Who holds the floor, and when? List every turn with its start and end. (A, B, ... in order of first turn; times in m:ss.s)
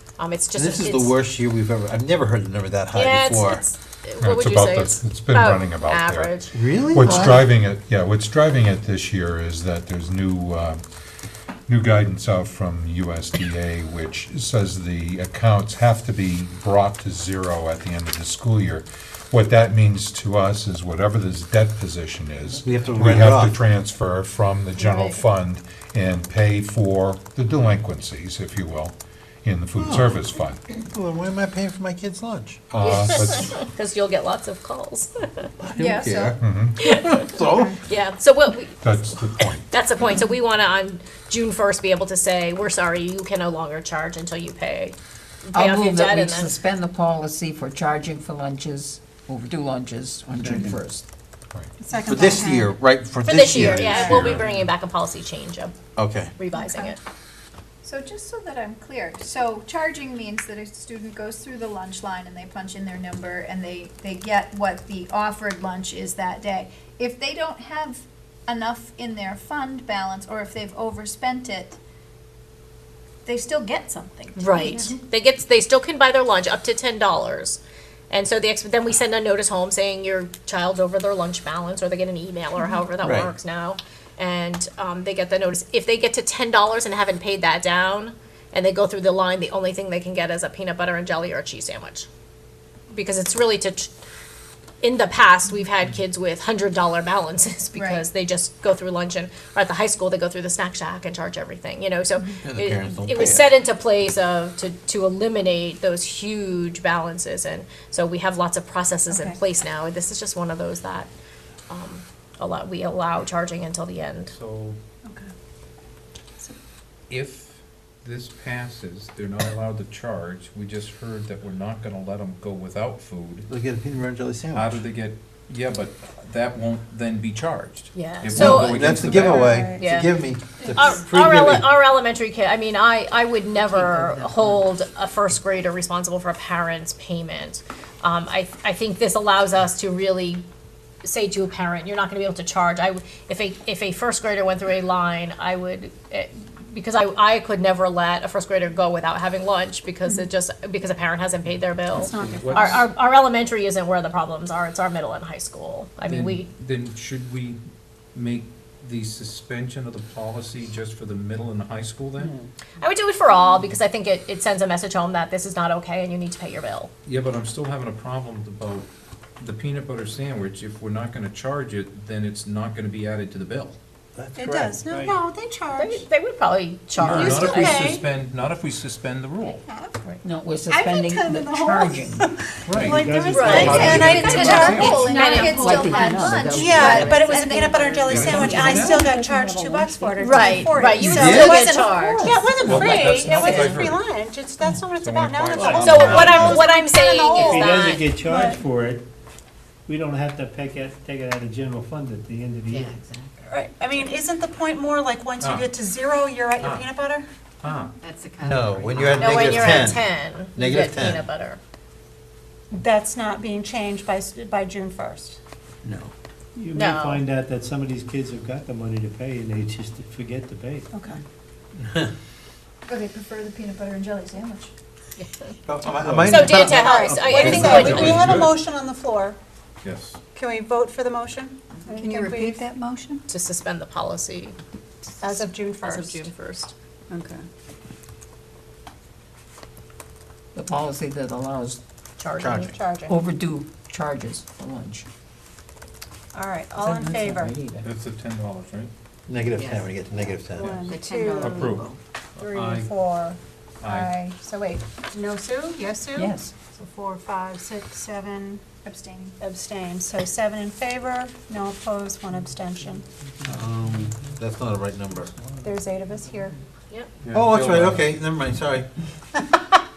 0:00.2-0:01.2 A
0:00.5-0:03.6 B
0:02.9-0:06.5 A
0:04.2-0:10.8 C
0:06.5-0:07.5 B
0:07.0-0:07.4 D
0:11.7-0:30.6 C
0:22.6-0:23.6 B
0:24.8-0:25.2 A
0:29.8-0:30.2 B
0:30.7-0:32.6 B
0:32.7-0:33.5 C
0:32.8-0:35.5 A
0:35.6-0:36.4 B
0:35.8-0:36.4 E
0:36.4-0:36.8 C
0:36.8-0:46.5 A
0:37.1-0:37.8 B
0:38.8-0:39.7 C
0:45.5-0:51.0 D
0:50.4-0:50.7 B
0:51.8-0:52.7 F
0:52.0-0:54.4 B
0:53.2-0:55.7 A
0:53.9-0:54.5 C
0:56.0-0:56.3 B
0:56.4-0:57.0 A
0:56.5-0:56.9 E
0:57.8-1:11.8 E
1:13.2-1:14.9 E
1:14.4-1:32.1 A
1:23.0-1:23.3 B
1:32.9-1:33.9 A
1:34.8-1:51.1 A
1:37.7-1:38.0 E
1:42.4-1:43.5 B
1:49.1-1:49.4 F
1:51.7-1:54.3 A
1:54.3-1:54.8 G
1:57.1-2:03.5 G
2:03.5-2:04.8 B
2:04.5-2:09.6 G
2:07.9-2:08.9 A
2:08.3-2:11.7 B
2:09.2-2:09.8 F
2:09.8-2:10.1 A
2:10.7-2:20.4 A
2:14.0-2:14.4 D
2:21.0-2:36.5 A
2:31.9-2:32.8 F
2:32.0-2:32.8 G
2:36.0-2:37.6 G
2:38.1-2:42.3 G
2:42.8-2:46.9 A
2:47.0-2:53.8 G
2:54.2-2:54.8 B
2:54.4-2:56.0 F
2:54.9-2:55.2 H
2:55.7-2:57.8 A
2:57.0-2:59.6 G
2:57.1-2:58.0 F
2:59.7-3:00.1 F
3:00.2-3:02.3 D
3:00.7-3:04.9 F
3:02.6-3:05.3 G
3:02.8-3:04.7 H
3:03.3-3:03.9 A
3:03.5-3:08.8 E
3:04.7-3:05.7 A
3:04.8-3:07.4 D
3:06.4-3:18.6 F
3:08.1-3:09.2 G
3:08.4-3:10.1 D
3:10.2-3:13.8 A
3:11.0-3:11.6 G
3:12.6-3:14.1 G
3:14.9-3:16.7 G
3:15.6-3:16.4 H
3:15.8-3:18.0 A
3:17.4-3:19.0 H
3:19.9-3:23.0 H
3:22.7-3:23.5 D
3:23.5-3:27.2 F
3:25.4-3:25.7 G
3:26.6-3:26.9 G
3:27.6-3:27.9 G
3:28.0-3:29.8 D
3:28.4-3:31.2 B
3:29.2-3:31.6 A
3:32.7-3:35.4 F
3:35.8-3:36.1 B
3:36.6-3:40.9 H
3:36.7-3:37.2 A
3:40.9-3:41.2 F
3:41.8-3:42.1 B
3:42.9-3:44.7 E
3:45.2-3:45.5 A
3:45.7-3:48.5 B
3:46.0-3:46.4 H
3:46.3-3:48.2 A
3:46.3-3:49.4 F
3:47.6-3:48.3 C
3:47.7-3:48.5 G
3:49.8-3:50.2 G
3:50.3-3:52.6 F
3:51.9-3:53.2 E
3:53.3-3:54.6 A
3:55.2-3:56.3 F
3:55.2-3:56.7 A
3:57.1-3:57.4 F
4:00.5-4:01.8 D
4:02.2-4:02.7 A
4:02.4-4:02.7 B
4:02.6-4:03.2 F
4:03.0-4:05.0 D
4:06.3-4:07.6 F
4:06.8-4:07.8 D
4:07.8-4:08.9 G
4:09.3-4:10.8 B
4:09.6-4:12.0 D
4:10.5-4:11.8 F
4:11.4-4:12.9 G
4:12.4-4:18.6 F
4:13.8-4:14.1 G
4:16.1-4:16.5 D
4:18.8-4:19.4 E
4:19.4-4:23.0 F
4:23.4-4:25.3 B
4:25.6-4:26.6 F
4:27.2-4:28.2 G
4:27.3-4:28.9 B